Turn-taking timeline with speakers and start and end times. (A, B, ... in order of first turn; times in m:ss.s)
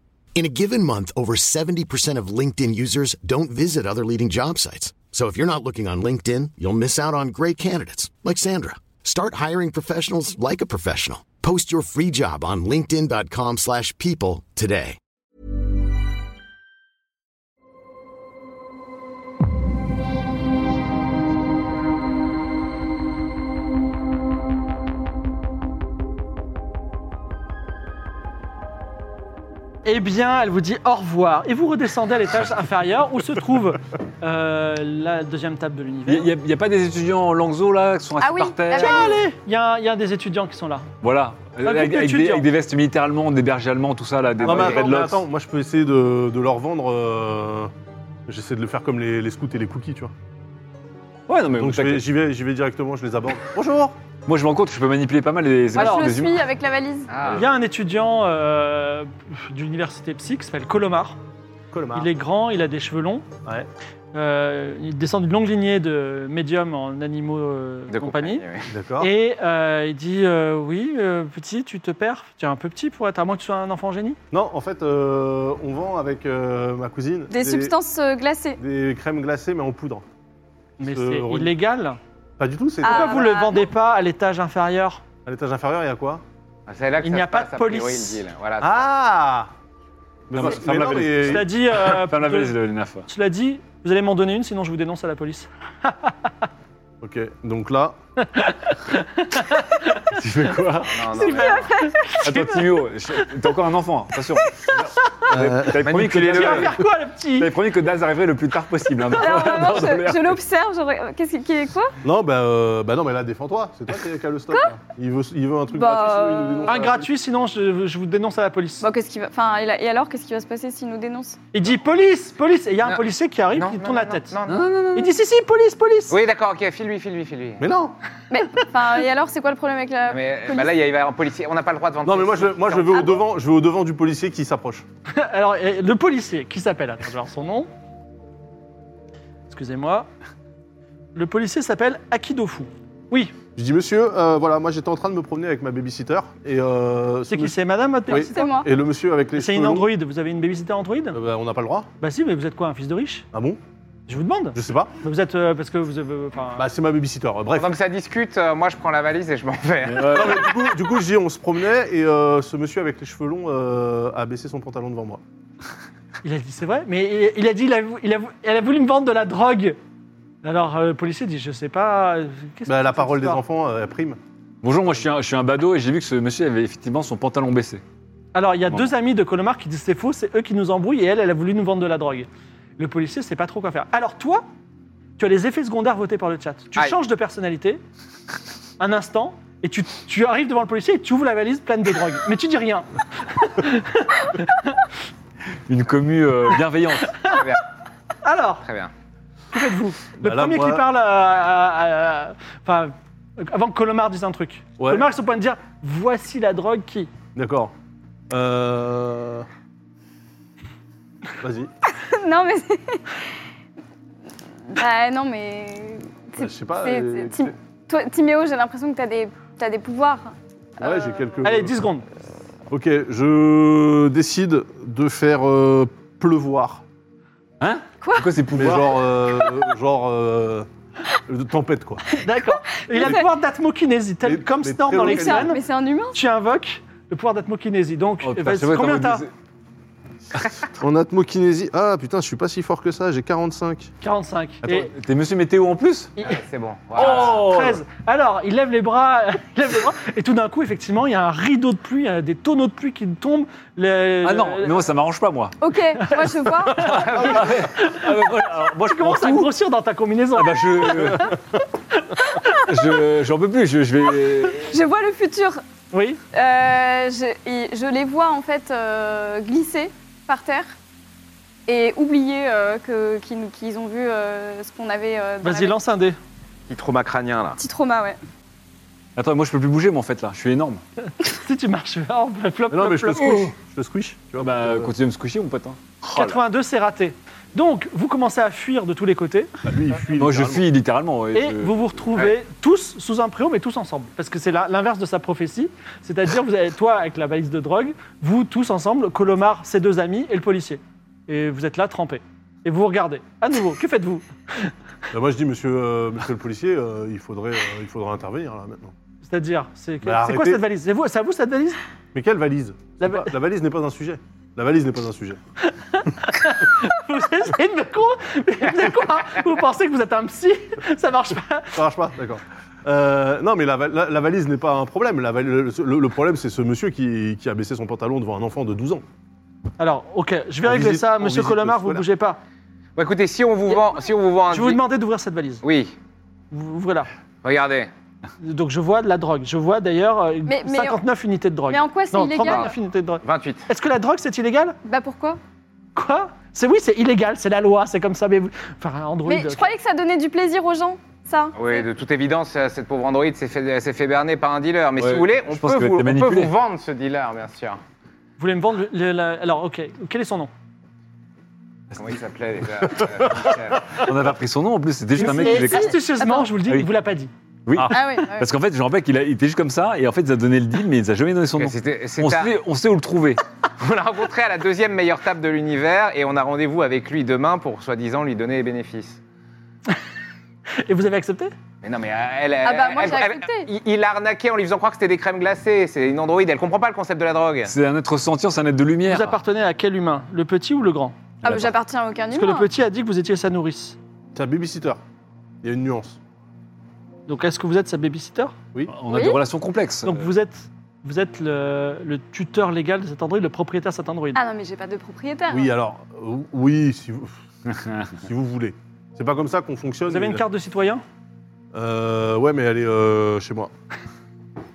0:00.3-0:15.0 A
0:29.8-0:36.3 B
0:36.1-0:39.1 C
0:38.2-0:39.2 D
0:38.7-0:40.9 B
0:41.0-0:45.2 C
0:41.6-0:42.5 B
0:44.4-0:47.7 E
0:44.4-0:44.7 F
0:48.3-0:50.1 E
0:51.3-0:52.0 C
0:51.6-0:54.0 E
0:54.2-0:56.4 C
0:55.7-0:57.1 D
0:55.7-0:56.1 B
0:57.1-0:57.4 F
0:57.3-1:01.2 B
1:01.7-1:02.1 E
1:01.9-1:03.3 B
1:04.1-1:08.4 B
1:07.9-1:08.7 F
1:08.7-1:09.1 E
1:09.0-1:14.2 B
1:14.3-1:17.7 E
1:17.3-1:18.6 D
1:18.6-1:20.0 E
1:20.8-1:22.0 B
1:20.8-1:21.5 E
1:22.4-1:23.2 E
1:22.8-1:23.7 D
1:22.8-1:25.0 B
1:25.2-1:26.2 E
1:26.7-1:28.8 F
1:27.0-1:28.2 B
1:28.6-1:29.5 E
1:30.3-1:31.5 E
1:30.3-1:33.0 C
1:31.2-1:36.1 B
1:37.0-1:38.0 E
1:38.2-1:40.2 B
1:40.1-1:41.2 C
1:40.8-1:41.7 F
1:41.1-1:42.4 D
1:41.2-1:42.6 B
1:42.2-1:46.8 C
1:45.0-1:45.3 B
1:45.3-1:46.8 E
1:46.0-1:47.5 B
1:47.4-1:50.4 C
1:49.1-1:51.9 D
1:52.0-1:57.1 E
1:55.7-1:56.8 D
1:56.6-1:58.8 B
1:58.8-2:01.4 D
2:01.5-2:04.3 B
2:03.5-2:04.8 F
2:04.5-2:04.8 C
2:04.9-2:06.2 B
2:06.1-2:07.6 F
2:07.6-2:07.9 E
2:08.3-2:10.7 D
2:10.1-2:13.0 F
2:12.0-2:14.8 E
2:15.1-2:17.7 B
2:19.5-2:20.1 B
2:21.1-2:23.3 B
2:23.6-2:27.6 E
2:27.3-2:28.5 B
2:28.1-2:28.7 D
2:28.1-2:29.9 E
2:29.4-2:31.2 B
2:31.1-2:31.9 E
2:32.0-2:33.2 B
2:33.3-2:33.6 E
2:34.1-2:36.7 B
2:34.5-2:34.9 E
2:36.6-2:37.7 E
2:37.5-2:40.5 F
2:39.8-2:40.5 C
2:40.0-2:45.2 E
2:46.2-2:49.8 B
2:50.4-2:53.4 B
2:52.6-2:54.2 E
2:54.6-2:57.8 C
2:58.3-3:04.4 B
3:05.2-3:07.8 B
3:08.8-3:14.8 B
3:15.6-3:17.3 C
3:17.3-3:17.6 F
3:18.2-3:18.6 B
3:18.6-3:18.9 F
3:19.5-3:27.1 B
3:20.2-3:20.8 E
3:24.8-3:25.1 E
3:27.3-3:27.7 E
3:28.3-3:29.5 E
3:31.4-3:31.7 E
3:32.0-3:33.2 D
3:34.7-3:41.2 D
3:36.4-3:37.5 E
3:40.8-3:41.7 E
3:41.4-3:42.0 B
3:42.7-3:46.8 E
3:47.6-3:49.2 C
3:48.0-3:48.3 D
3:48.5-3:50.7 E
3:51.3-3:52.0 E
3:52.2-3:55.6 B
3:52.8-3:53.3 D
3:54.2-3:55.6 E
3:55.0-3:56.2 D
3:56.1-3:59.2 B
3:58.2-3:59.3 C
4:00.8-4:03.9 E
4:04.0-4:04.9 B
4:04.6-4:06.1 C
4:06.2-4:07.4 F
4:06.9-4:14.8 B
4:07.0-4:07.8 C
4:14.2-4:15.6 C
4:15.6-4:16.9 D
4:16.0-4:21.3 B
4:16.8-4:19.5 C
4:20.3-4:21.4 C
4:22.1-4:22.6 B
4:22.5-4:24.7 C
4:24.6-4:25.6 D
4:25.9-4:26.2 B
4:26.3-4:30.7 D
4:31.7-4:35.7 D
4:35.4-4:36.2 B
4:36.7-4:37.6 F
4:37.6-4:38.2 D
4:39.2-4:40.8 C
4:41.2-4:43.5 B
4:42.7-4:44.9 E
4:44.4-4:46.4 C
4:46.1-4:49.5 B
4:49.6-4:50.7 E
4:50.1-4:51.7 C
4:51.3-5:04.7 B
5:05.1-5:08.9 E
5:09.2-5:11.8 B
5:10.0-5:10.6 E
5:12.1-5:15.4 E
5:13.0-5:13.3 B
5:15.6-5:21.8 B
5:21.7-5:29.0 E
5:29.8-5:32.4 B
5:30.6-5:32.0 E
5:33.0-5:34.8 F
5:34.5-5:35.6 B
5:35.6-5:35.9 F
5:36.5-5:37.1 B
5:37.4-5:37.9 F
5:38.4-5:44.8 B
5:40.4-5:41.0 D
5:41.7-5:42.7 D
5:42.4-5:42.7 F
5:43.2-5:43.6 F
5:44.8-5:45.4 D
5:45.9-5:49.7 B
5:49.2-5:51.8 D
5:51.6-5:57.8 F
5:55.0-5:56.5 C
5:58.4-6:00.5 B
6:01.9-6:04.0 F
6:04.0-6:06.0 C
6:05.2-6:07.3 B
6:05.3-6:06.5 D
6:07.6-6:13.4 C
6:07.9-6:08.5 D
6:11.5-6:12.5 F
6:13.8-6:19.2 F
6:20.7-6:21.5 B
6:21.8-6:27.7 F
6:22.6-6:23.7 D
6:27.6-6:29.4 C
6:29.1-6:31.2 B
6:31.4-6:32.7 D
6:31.4-6:31.7 C
6:32.3-6:34.0 B
6:34.3-6:35.0 E
6:35.6-6:36.2 E
6:37.3-6:38.5 B
6:38.9-6:40.3 C
6:39.1-6:39.4 D
6:40.0-6:44.4 B
6:44.3-6:45.7 D
6:45.5-6:47.3 E
6:47.7-6:48.0 C
6:48.2-6:50.4 E
6:50.1-6:51.0 B
6:51.7-6:53.7 E